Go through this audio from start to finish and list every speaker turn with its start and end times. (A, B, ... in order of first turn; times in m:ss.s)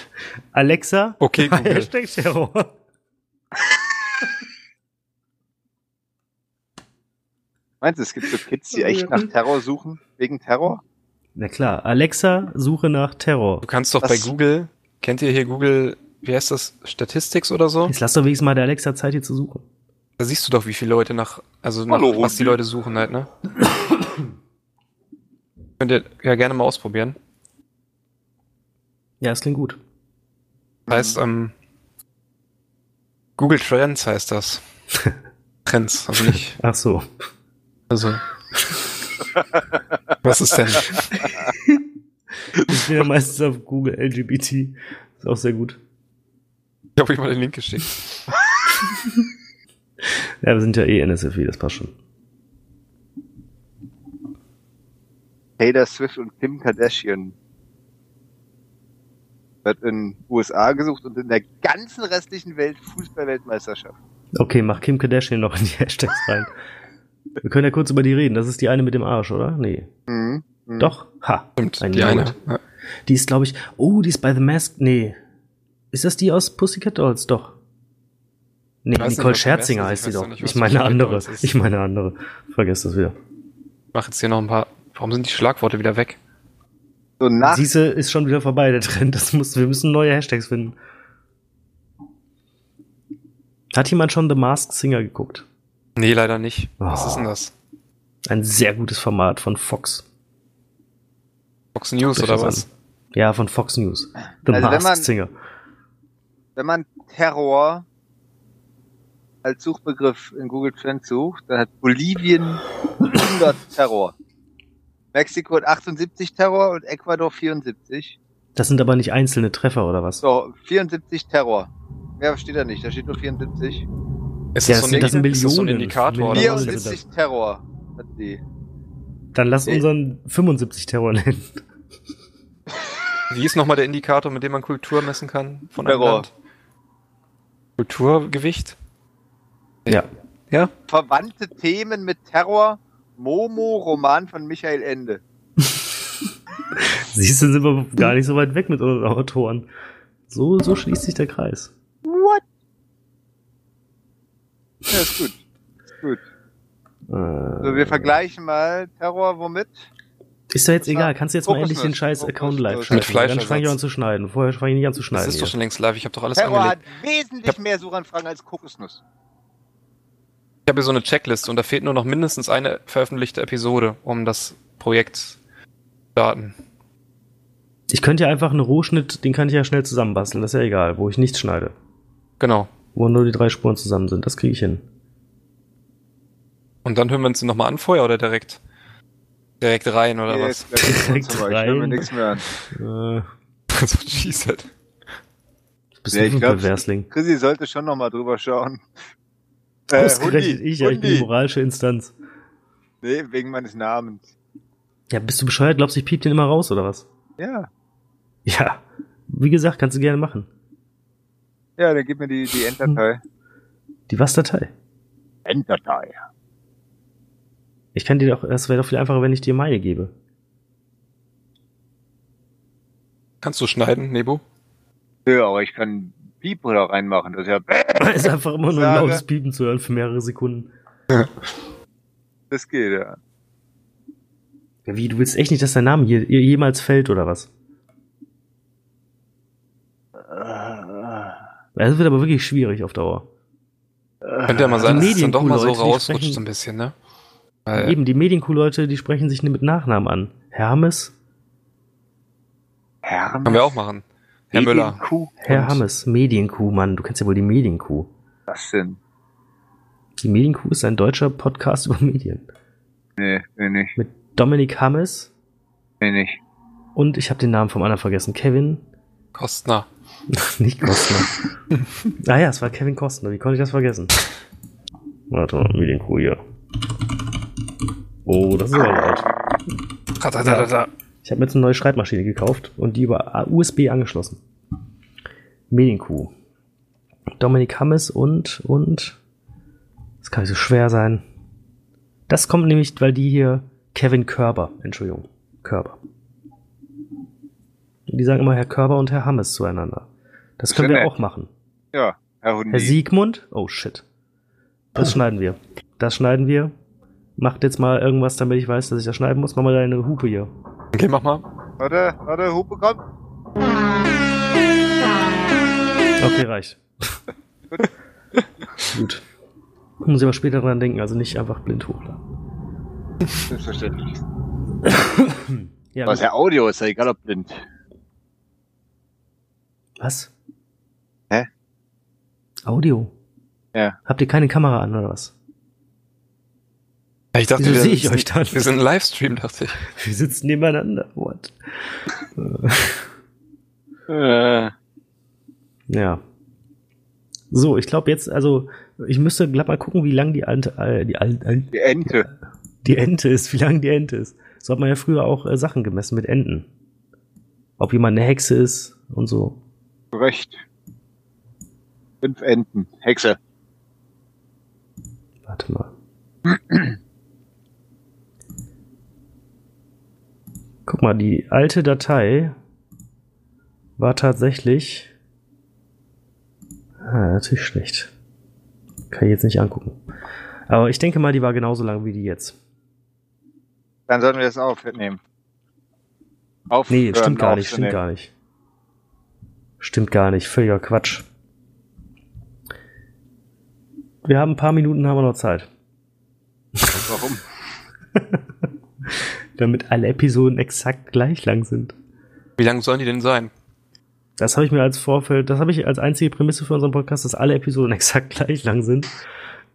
0:00.5-0:02.7 A
0:01.2-0:01.9 B
0:07.8-0:10.8 C
0:08.8-0:09.2 A
0:11.4-0:13.6 A
0:13.6-0:17.9 B
0:14.0-0:14.3 C
0:17.9-0:19.6 A
0:20.2-0:23.3 B
0:21.9-0:22.6 C
0:23.7-0:24.2 A
0:25.8-0:27.2 B
0:29.2-0:29.8 A
0:30.9-0:31.2 C
0:30.9-0:31.5 B
0:33.4-0:34.6 B
0:35.7-0:36.6 B
0:36.2-0:37.1 A
0:37.9-0:38.2 B
0:40.2-0:41.3 B
0:41.5-0:41.9 A
0:42.5-0:45.8 A
0:47.0-0:48.3 B
0:50.0-0:51.9 A
0:55.6-0:57.4 C
0:59.6-1:03.9 C
1:04.4-1:06.5 A
1:07.4-1:09.9 A
1:10.1-1:10.9 C
1:10.8-1:12.4 A
1:11.6-1:12.6 B
1:13.1-1:15.2 A
1:15.9-1:17.6 A
1:18.8-1:23.2 A
1:19.0-1:21.5 B
1:23.9-1:26.2 B
1:27.2-1:27.7 C
1:27.4-1:30.8 A
1:33.7-1:35.5 A
1:36.0-1:37.5 B
1:36.8-1:37.3 A
1:38.3-1:40.0 A
1:41.8-1:42.7 B
1:42.1-1:45.3 A
1:44.5-1:45.1 C
1:46.6-1:47.8 C
1:49.4-1:54.1 C
1:55.1-1:58.2 C
1:58.6-2:00.2 A
2:00.2-2:03.9 C
2:04.6-2:06.8 B
2:04.7-2:07.0 A
2:04.9-2:05.2 C
2:06.3-2:08.4 C
2:09.3-2:11.6 A
2:13.3-2:16.3 B
2:15.8-2:16.3 C
2:17.8-2:18.8 B
2:19.9-2:20.7 B
2:20.9-2:25.2 C
2:25.6-2:25.9 A
2:26.8-2:29.7 A
2:30.3-2:31.7 A
2:32.0-2:32.4 C
2:34.9-2:35.4 C
2:37.1-2:38.2 A
2:37.6-2:39.9 C
2:40.5-2:45.6 A
2:40.8-2:43.1 C
2:42.9-2:43.8 B
2:45.1-2:46.8 B
2:46.4-2:49.0 C
2:50.7-2:55.4 B
2:56.2-2:56.6 B
2:57.9-3:01.7 A
3:02.4-3:02.7 B
3:03.0-3:04.8 A
3:06.8-3:08.6 B
3:09.6-3:11.0 B
3:10.3-3:12.5 C
3:10.8-3:12.1 A
3:12.7-3:13.3 A
3:13.7-3:14.7 B
3:16.0-3:17.1 A
3:16.1-3:18.8 C
3:19.9-3:21.3 C
3:19.9-3:22.1 A
3:23.0-3:24.2 C
3:25.1-3:27.1 A
3:27.4-3:27.7 C
3:28.5-3:30.5 A
3:31.8-3:33.2 C
3:34.1-3:34.7 A
3:35.5-3:36.2 C
3:38.0-3:40.1 A
3:43.4-3:44.4 B
3:45.3-3:49.2 C
3:48.0-3:50.7 A
3:52.5-3:53.2 C
3:54.9-3:57.5 A
4:00.3-4:01.4 C
4:01.8-4:03.3 A
4:04.2-4:05.1 C
4:04.4-4:06.9 B
4:04.8-4:06.4 A
4:07.7-4:08.0 B
4:07.8-4:11.1 A
4:13.0-4:13.8 C
4:13.4-4:15.8 B
4:14.5-4:15.3 C
4:15.4-4:18.1 A
4:18.5-4:19.0 C
4:20.2-4:22.5 A
4:23.2-4:24.0 C
4:24.0-4:25.3 A
4:26.0-4:26.4 C
4:27.0-4:28.8 A
4:29.3-4:29.9 B
4:30.3-4:31.4 A
4:32.2-4:34.1 A
4:35.3-4:36.4 A
4:38.2-4:39.3 A
4:40.2-4:40.9 B
4:40.4-4:40.7 A
4:41.2-4:44.4 A
4:45.7-4:46.3 A
4:47.4-4:49.2 A
4:50.2-4:51.2 A
4:52.3-4:56.0 A
4:58.1-5:00.1 A
5:00.6-5:01.5 A
5:00.7-5:01.1 C
5:01.9-5:03.0 C
5:02.7-5:04.0 A
5:04.9-5:06.7 A
5:07.4-5:10.5 A
5:10.9-5:11.4 B
5:11.8-5:13.0 C
5:16.2-5:17.2 A
5:18.9-5:19.2 A
5:20.0-5:22.2 A
5:23.5-5:24.2 C
5:24.9-5:26.2 A
5:26.1-5:27.6 C
5:30.0-5:30.3 A
5:32.6-5:33.1 A
5:34.1-5:35.3 A
5:37.3-5:39.8 B
5:37.6-5:38.7 A
5:39.9-5:43.1 A
5:44.1-5:44.7 C
5:45.9-5:46.2 A
5:47.5-5:51.7 A
5:51.7-5:52.3 C
5:52.8-5:56.7 A
5:57.8-5:59.6 A
6:00.1-6:00.6 C
6:02.2-6:03.4 C
6:05.5-6:05.9 A
6:06.5-6:07.0 C
6:10.9-6:12.6 A
6:14.0-6:15.1 A
6:17.0-6:18.1 A
6:19.1-6:20.0 A
6:20.7-6:22.6 A
6:24.1-6:25.2 C
6:26.7-6:28.0 C
6:26.9-6:28.3 A
6:29.8-6:31.3 A
6:34.2-6:35.7 A
6:36.9-6:37.4 C
6:38.1-6:38.4 A
6:39.1-6:42.0 A
6:42.6-6:43.5 B
6:44.4-6:49.1 A